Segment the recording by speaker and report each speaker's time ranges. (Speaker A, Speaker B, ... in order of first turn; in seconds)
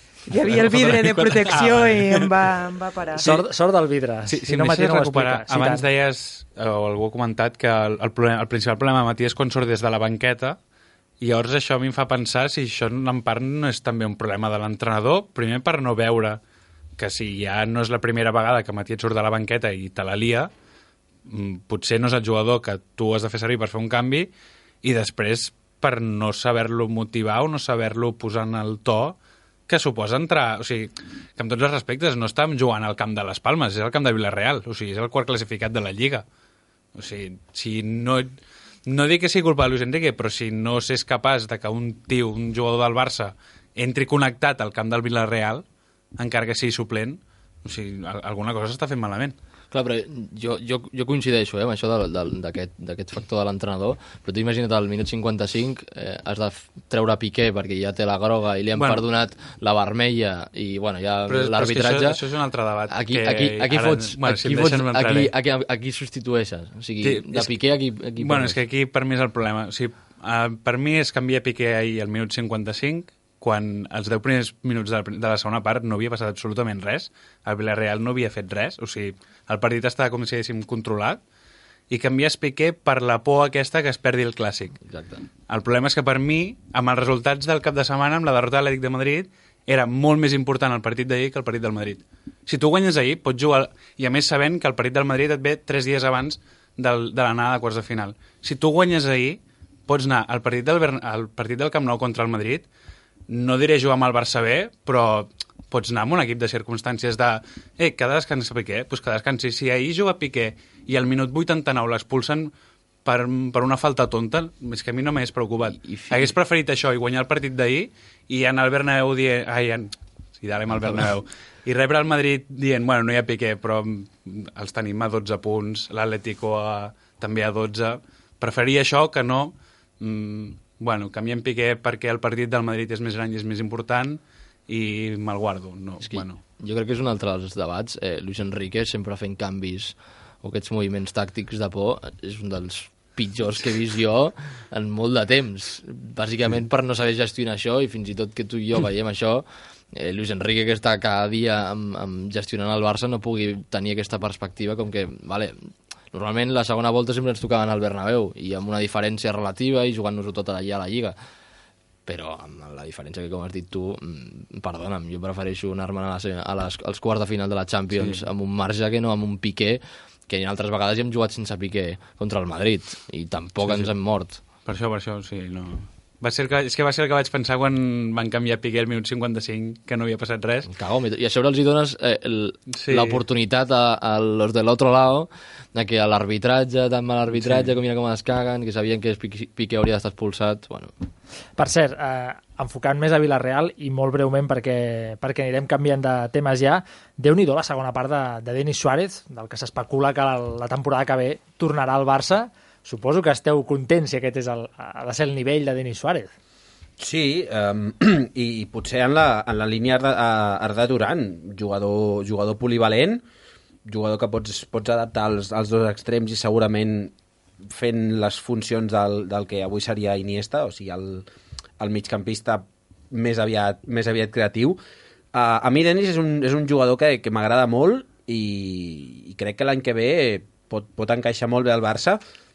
Speaker A: 0.3-3.2
Speaker B: 0.3-2.4, 3.2-3.4, 4.2-10.6, 11.2-16.4, 17.0-20.5, 21.2-24.3, 24.8-29.2, 29.7-36.2, 36.9-45.6, 46.2-49.3, 58.8-59.0, 61.3-65.3, 67.0-67.5, 68.0-81.2, 81.9-84.8, 85.5-102.7, 103.3-112.5, 113.0-136.4, 167.9-168.2, 173.6-173.9, 174.7-180.7, 182.7-183.2, 187.3-187.7
Speaker C: 3.2-5.8, 191.6-206.3
Speaker D: 49.7-62.2, 62.9-68.6, 84.9-85.2, 115.7-116.3, 136.0-161.2, 162.1-174.4, 180.7-190.9
Speaker E: 207.0-213.2, 213.8-217.1, 217.6-221.2, 221.8-224.8, 225.3-232.2